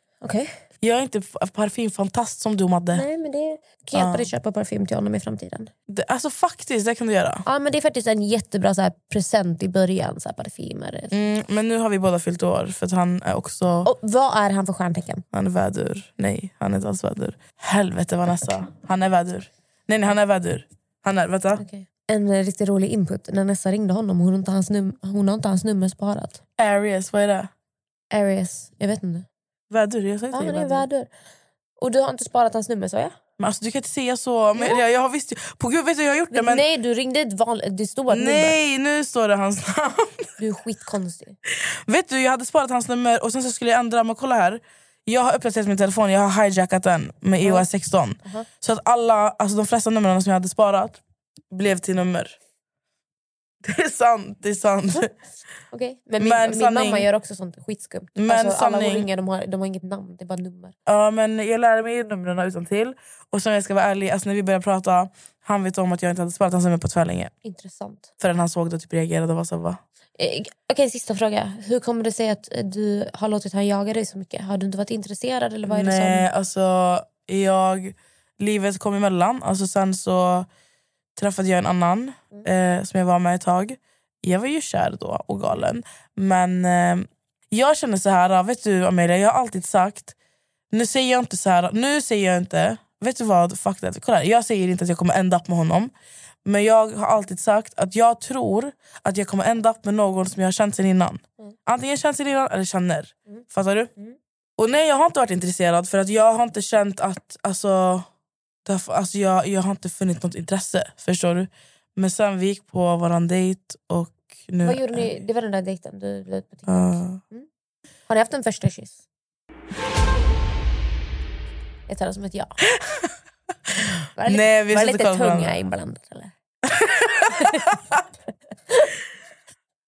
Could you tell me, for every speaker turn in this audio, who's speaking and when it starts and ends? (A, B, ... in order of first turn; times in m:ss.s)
0:00.2-0:00.5 A
0:00.8-0:03.0 B
0:02.9-0:05.7 A
0:03.9-0:04.3 B
0:05.9-0:07.4 B
0:07.4-0:11.2 A
0:11.1-0:13.9 B
0:13.8-0:15.2 A
0:15.3-0:21.6 B
0:21.6-0:26.4 A
0:26.6-0:27.5 B
0:28.1-0:29.2 A
0:29.7-0:30.9 B
0:30.3-0:31.1 A
0:31.8-0:33.1 A
0:33.4-0:36.6 B
0:34.6-0:34.8 A
0:36.3-0:38.6 A
0:38.1-0:40.3 B
0:40.4-0:41.4 A
0:41.9-0:51.0 B
0:51.5-0:52.4 B
0:53.6-0:55.1 B
0:55.7-1:00.7 A
0:56.2-0:57.1 B
0:58.2-0:59.1 B
1:00.8-1:07.3 B
1:07.4-1:08.1 A
1:08.2-1:09.8 B
1:10.2-1:16.3 A
1:15.7-1:20.5 B
1:21.2-1:30.1 B
1:30.7-1:35.9 B
1:36.4-1:43.9 B
1:44.6-1:48.0 B
1:48.6-1:55.1 B
1:54.6-1:57.5 A
1:56.7-1:57.2 B
1:58.1-1:59.0 A
2:01.9-2:02.6 A
2:04.1-2:06.3 A
2:04.2-2:05.6 B
2:06.8-2:07.2 B
2:07.4-2:07.7 A